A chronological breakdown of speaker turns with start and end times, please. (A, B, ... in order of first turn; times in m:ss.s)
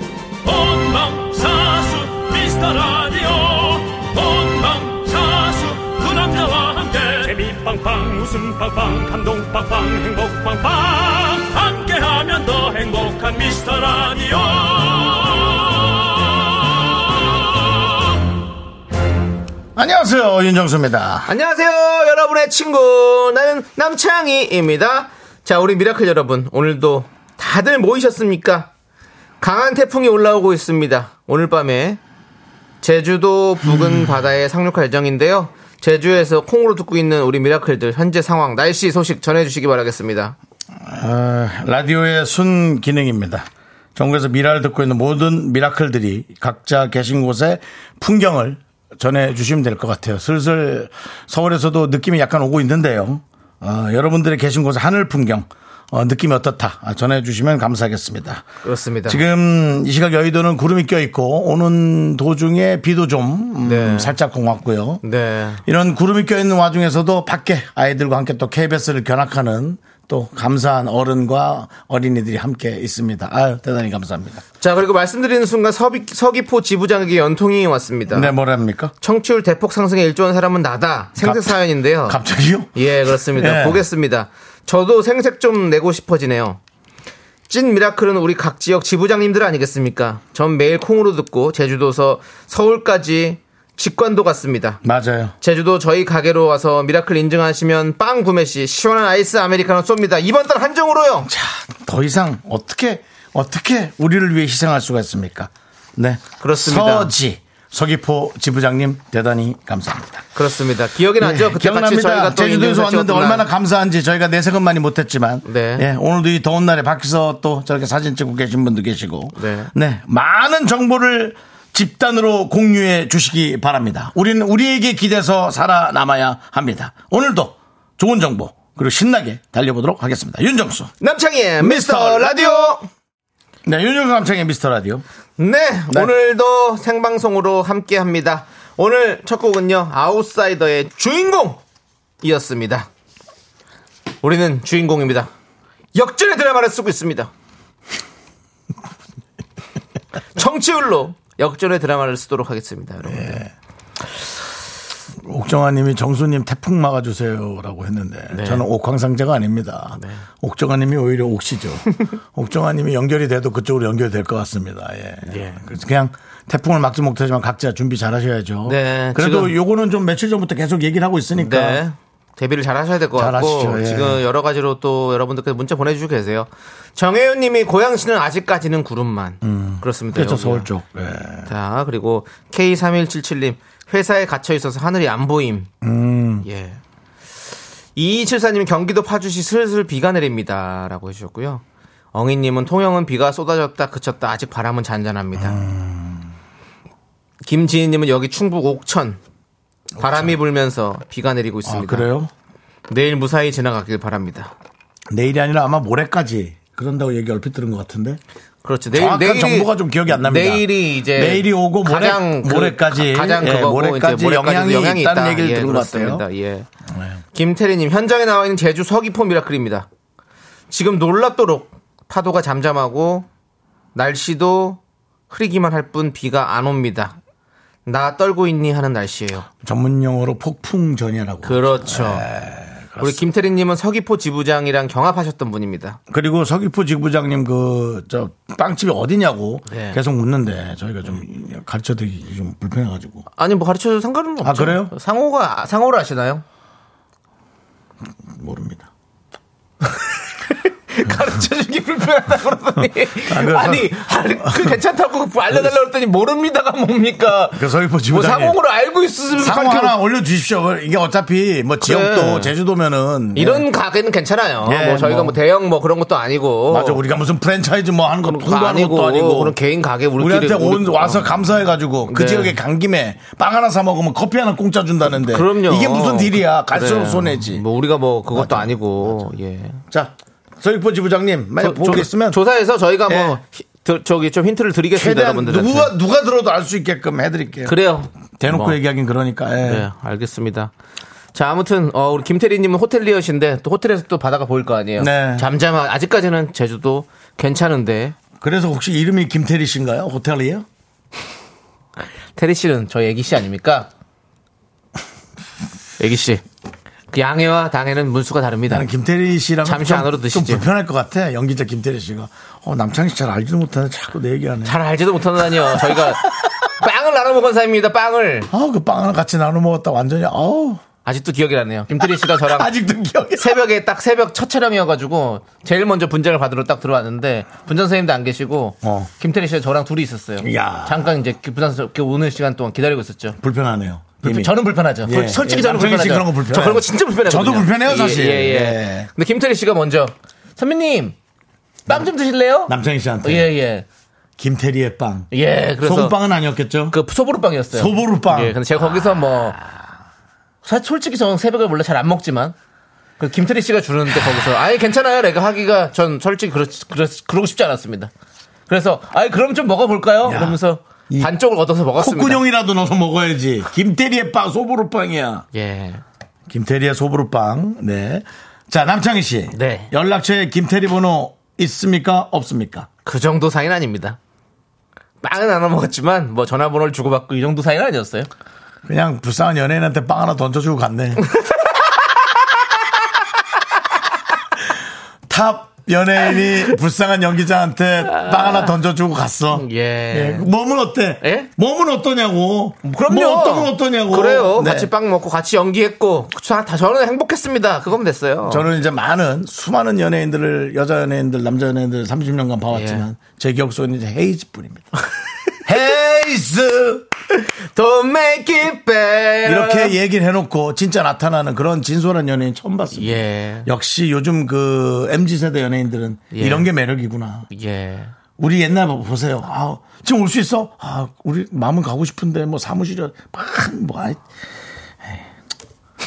0:00.4-0:18.2 A
0:19.8-0:21.3 B
0:21.2-0:28.7 C
0:29.4-0:32.0 C
0:32.8-0:40.4 C
0:40.8-0:58.4 B
0:58.6-0:59.2 C
0:59.1-1:05.0 B
1:03.6-1:04.2 C
1:05.0-1:05.6 C
1:05.6-1:14.4 B
1:14.6-1:18.3 C
1:18.1-1:18.9 B
1:19.0-1:22.2 C
1:21.2-1:23.8 B
1:22.7-1:26.6 C
1:27.5-1:34.8 C
1:34.8-1:35.3 B
1:35.4-1:41.3 C
1:41.2-1:50.2 B
1:46.4-1:47.1 C
1:50.4-1:53.4 C
1:51.2-2:10.9 B
1:55.4-1:55.8 C
1:59.4-1:59.7 C
2:11.0-2:12.8 C
2:11.6-2:12.8 B
2:13.6-2:15.0 B
2:15.4-2:21.6 C
2:22.2-2:22.9 C
2:24.2-2:25.3 C
2:25.9-2:27.3 C
2:30.4-2:33.4 C
2:33.0-2:33.5 B
2:35.2-2:51.8 B
2:38.3-2:38.7 C
2:39.9-2:40.2 C
2:45.2-2:45.6 C
2:48.6-2:49.5 C
2:51.4-3:00.7 C
2:53.1-2:54.2 B
2:59.4-3:01.5 B
3:01.4-3:05.7 C
3:05.8-3:06.4 B
3:06.4-3:06.8 C
3:08.0-3:11.6 C
3:12.1-3:15.6 C
3:15.4-3:16.3 B
3:17.4-3:19.2 C
3:20.0-3:20.4 B
3:20.0-3:22.1 C
3:21.6-3:22.3 B
3:22.9-3:24.5 C
3:25.1-3:28.2 B
3:28.6-3:36.7 C
3:28.9-3:36.2 B
3:36.9-3:37.2 B
3:37.3-3:39.9 C
3:40.7-3:43.2 C
3:43.9-3:44.8 C
3:45.3-3:47.2 C
3:47.8-3:49.5 C
3:49.6-3:53.2 B
3:51.4-3:52.3 C
3:53.0-3:56.0 C
3:56.1-4:03.2 B
3:59.7-4:00.0 C
4:03.4-4:06.4 C
4:04.4-4:04.9 B
4:08.3-4:08.9 B
4:10.5-4:19.9 C
4:13.2-4:14.8 B
4:17.5-4:18.6 B
4:19.4-4:23.7 B
4:21.8-4:22.5 C
4:23.3-4:27.0 C
4:24.6-4:25.4 B
4:26.7-4:29.5 B
4:28.2-4:31.4 C
4:30.2-4:37.6 B
4:32.1-4:32.6 C
4:35.1-4:39.8 C
4:38.3-4:39.3 B
4:39.9-4:42.4 B
4:41.6-4:45.9 C
4:43.1-4:43.4 B
4:44.9-4:47.8 B
4:47.6-4:48.8 C
4:48.3-4:49.9 B
4:49.6-4:50.7 C
4:51.3-4:58.2 C
4:55.0-4:55.5 B
4:58.4-5:00.6 B
5:02.4-5:03.9 C
5:06.0-5:06.4 C
5:07.1-5:08.9 C
5:08.7-5:14.8 B
5:09.6-5:10.7 C
5:14.6-5:18.5 C
5:15.6-5:16.5 B
5:18.5-5:20.8 B
5:21.0-5:22.7 C
5:22.0-5:23.6 B
5:23.4-5:33.4 C
5:28.8-5:29.1 B
5:30.4-5:31.1 B
5:33.4-5:39.1 B
5:34.2-5:41.1 C
5:41.9-5:43.8 C
5:42.7-5:43.5 B
5:44.4-5:47.0 B
5:45.3-5:46.2 C
5:46.9-5:49.6 C
5:47.7-5:49.4 B
5:50.6-5:52.5 C
5:53.2-5:58.1 C
5:58.7-6:02.4 C
6:00.2-6:01.3 B
6:01.9-6:05.4 B
6:05.5-6:06.0 C
6:06.5-6:12.9 B
6:09.5-6:09.9 C
6:13.0-6:14.2 C
6:15.2-6:18.3 C
6:18.8-6:21.2 B
6:21.3-6:21.6 C
6:25.3-6:34.9 B
6:28.1-6:28.7 C
6:29.5-6:30.5 C
6:31.2-6:31.5 C
6:32.8-6:38.7 C
6:38.5-6:44.9 B
6:42.7-6:43.0 C
6:45.6-6:47.1 B
6:47.3-6:50.0 C
6:49.4-6:57.5 B
6:53.0-6:53.7 C
6:56.3-6:56.7 C
6:57.5-6:58.1 C
6:58.4-7:04.2 B